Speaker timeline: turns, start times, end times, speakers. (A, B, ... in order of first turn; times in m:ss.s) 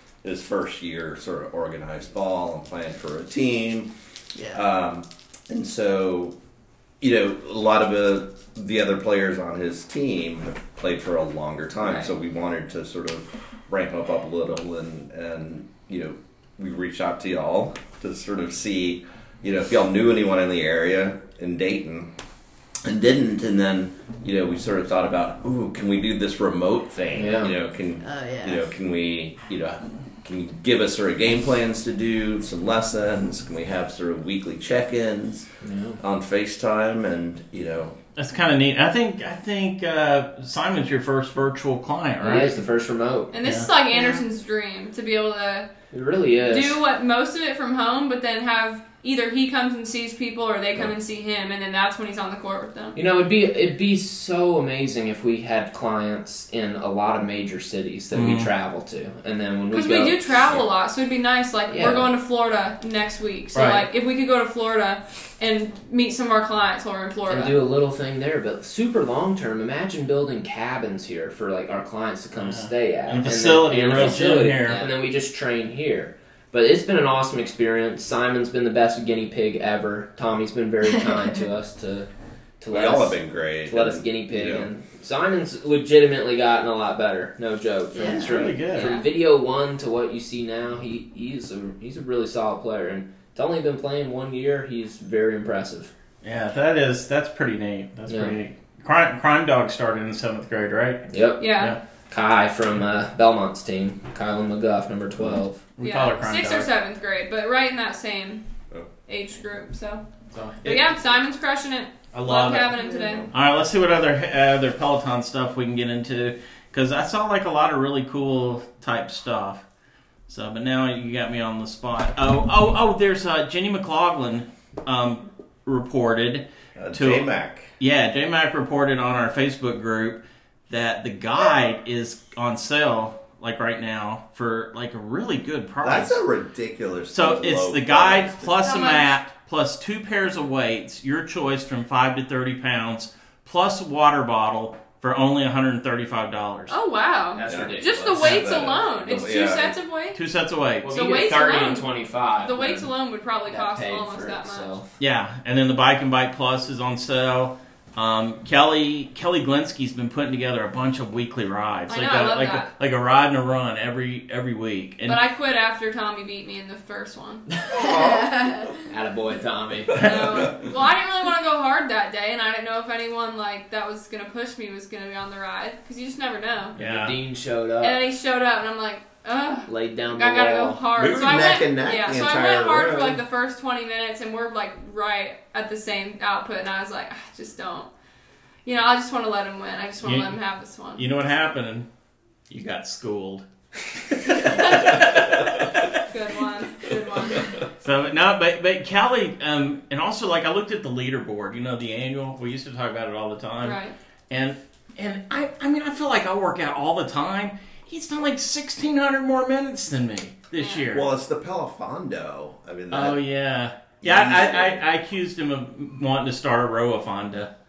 0:00.2-0:03.9 A
0:04.4-0:04.6 B
0:04.5-0:06.4 A
0:07.0-0:22.1 A
0:22.8-0:35.5 A
0:27.1-0:27.5 C
0:28.0-0:28.7 B
0:35.6-0:36.0 C
0:36.0-0:38.0 A
0:38.2-0:42.6 D
0:42.2-0:43.3 C
0:43.3-0:45.7 E
0:43.4-0:43.7 D
0:43.9-0:44.2 B
0:45.9-0:46.8 C
0:46.4-0:53.0 E
0:52.9-1:00.2 C
0:58.1-0:58.5 D
0:59.7-1:07.6 E
1:01.7-1:02.1 C
1:03.5-1:03.8 D
1:07.3-1:22.1 C
1:12.4-1:14.8 D
1:22.6-1:35.9 C
1:22.7-1:24.7 A
1:27.9-1:28.4 B
1:28.1-1:28.9 D
1:28.7-1:29.1 E
1:36.2-1:41.8 D
1:38.1-1:38.4 C
1:41.1-1:41.4 C
1:41.4-1:41.8 E
1:42.1-1:45.6 C
1:45.8-1:46.7 D
1:45.8-1:48.4 E
1:49.1-1:50.0 E
1:50.3-1:51.0 D
1:50.6-1:53.3 E
1:52.1-1:52.8 D
1:52.8-1:53.2 B
1:53.3-1:59.6 D
2:00.3-2:16.2 D
2:06.8-2:07.7 A
2:15.8-2:18.6 A
2:17.1-2:26.7 D
2:18.6-2:19.1 E
2:26.7-2:30.2 E
2:27.3-2:28.7 C
2:27.5-2:29.8 A
2:30.1-2:30.9 D
2:30.8-2:32.9 C
2:30.9-2:34.7 E
2:33.5-2:34.9 C
2:35.0-2:45.2 D
2:41.9-2:42.7 E
2:45.0-2:47.4 E
2:47.7-2:48.7 B
2:47.7-2:48.7 A
2:48.9-2:50.0 C
2:50.0-2:50.5 D
2:50.0-2:50.6 A
2:50.0-2:56.8 E
2:56.8-2:57.2 D
2:56.8-2:58.0 C
2:57.8-3:07.9 E
2:59.7-3:00.9 C
3:00.9-3:03.2 A
3:08.6-3:11.0 E
3:10.0-3:10.4 D
3:11.0-3:11.8 D
3:12.5-3:13.4 D
3:14.0-3:16.0 D
3:14.4-3:15.3 E
3:16.1-3:17.6 E
3:17.8-3:31.1 D
3:23.6-3:23.9 E
3:30.6-3:30.9 E
3:30.9-3:33.2 A
3:32.9-3:37.5 D
3:34.0-3:34.8 A